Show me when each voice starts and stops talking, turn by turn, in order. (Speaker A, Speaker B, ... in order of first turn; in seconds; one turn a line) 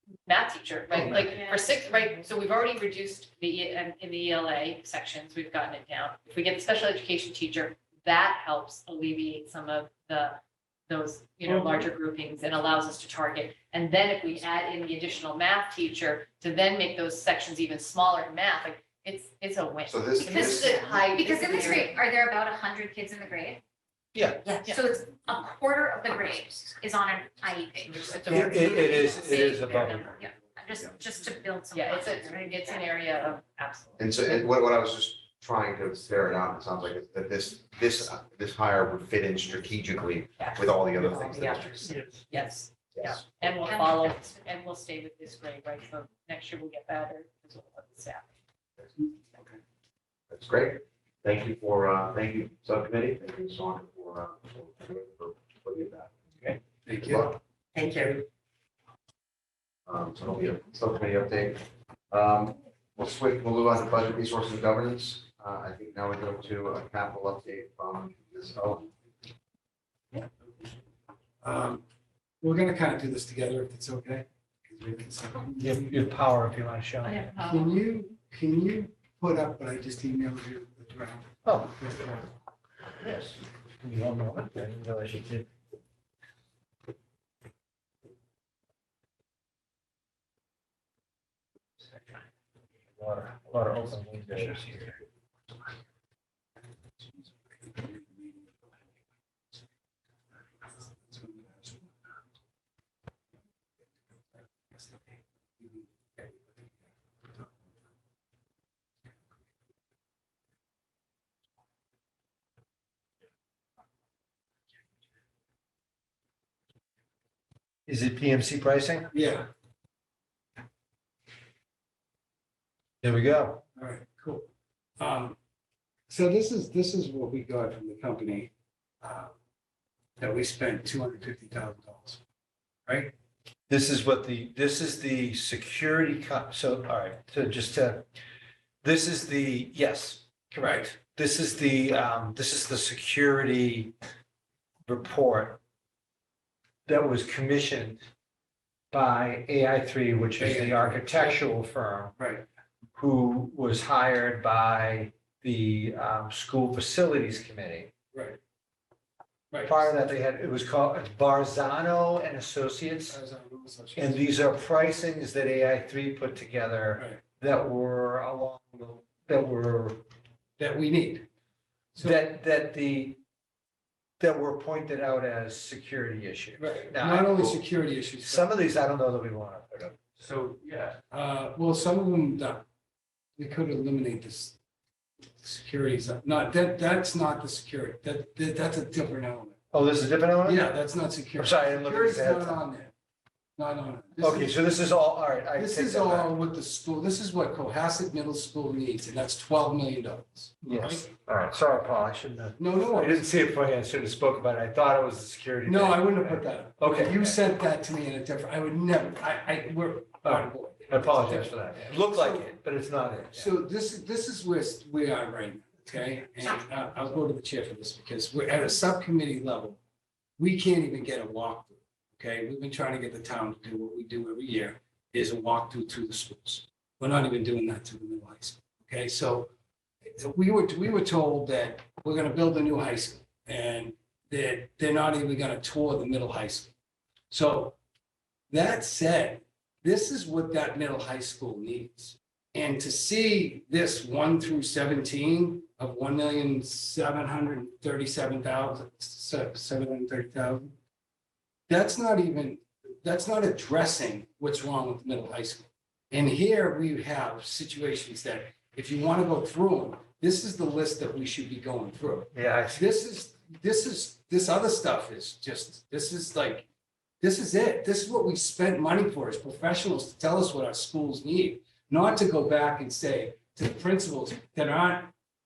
Speaker A: 0.3-22.0
Speaker B: 1.1-2.2
Speaker C: 11.5-11.9
Speaker D: 19.9-21.8
Speaker B: 20.2-23.6
Speaker E: 24.1-24.4
Speaker B: 24.4-32.9
Speaker A: 27.9-30.4
Speaker E: 28.3-30.2
Speaker A: 31.7-34.3
Speaker D: 34.0-42.0
Speaker A: 40.4-48.3
Speaker D: 42.9-43.2
Speaker B: 43.6-44.2
Speaker D: 50.3-56.1
Speaker C: 56.4-58.2
Speaker D: 56.9-57.4
Speaker D: 59.9-68.9
Speaker C: 71.4-71.8
Speaker C: 72.4-76.1
Speaker E: 75.6-77.3
Speaker B: 77.0-77.7
Speaker C: 77.4-82.3
Speaker E: 81.5-81.8
Speaker E: 83.0-85.5
Speaker E: 93.0-95.0
Speaker C: 97.5-98.5
Speaker C: 100.7-102.1
Speaker C: 104.7-105.0
Speaker C: 105.6-106.4
Speaker E: 117.9-119.1
Speaker C: 119.1-119.5
Speaker E: 123.0-123.6
Speaker C: 123.8-125.4
Speaker C: 126.1-129.3
Speaker C: 130.2-132.2
Speaker C: 132.9-133.1
Speaker E: 133.7-138.1
Speaker E: 138.8-143.9
Speaker C: 140.6-140.9
Speaker E: 144.9-145.6
Speaker E: 146.9-148.0
Speaker E: 148.9-152.1
Speaker C: 150.4-151.5
Speaker C: 152.2-152.5
Speaker E: 152.9-157.9
Speaker C: 158.1-158.4
Speaker C: 159.5-159.9
Speaker E: 159.7-163.2
Speaker C: 163.1-164.5
Speaker E: 164.0-170.0
Speaker C: 166.9-167.2
Speaker C: 170.6-171.3
Speaker C: 171.9-172.2
Speaker E: 172.0-173.2
Speaker E: 174.2-177.6
Speaker C: 176.6-178.5
Speaker E: 178.2-180.2
Speaker C: 180.2-182.7
Speaker C: 183.4-184.6
Speaker C: 185.4-189.6
Speaker E: 189.7-190.7
Speaker C: 190.4-192.9
Speaker E: 191.4-192.6
Speaker C: 193.6-194.6
Speaker E: 194.2-196.3
Speaker C: 195.6-201.1
Speaker E: 200.6-207.4
Speaker C: 202.6-203.2
Speaker C: 205.6-212.5
Speaker E: 210.2-213.6
Speaker C: 213.3-219.8
Speaker C: 220.4-229.5
Speaker C: 230.0-236.7
Speaker C: 237.3-237.8
Speaker C: 238.5-250.8
Speaker C: 251.7-266.7
Speaker E: 262.3-262.9
Speaker C: 267.2-275.1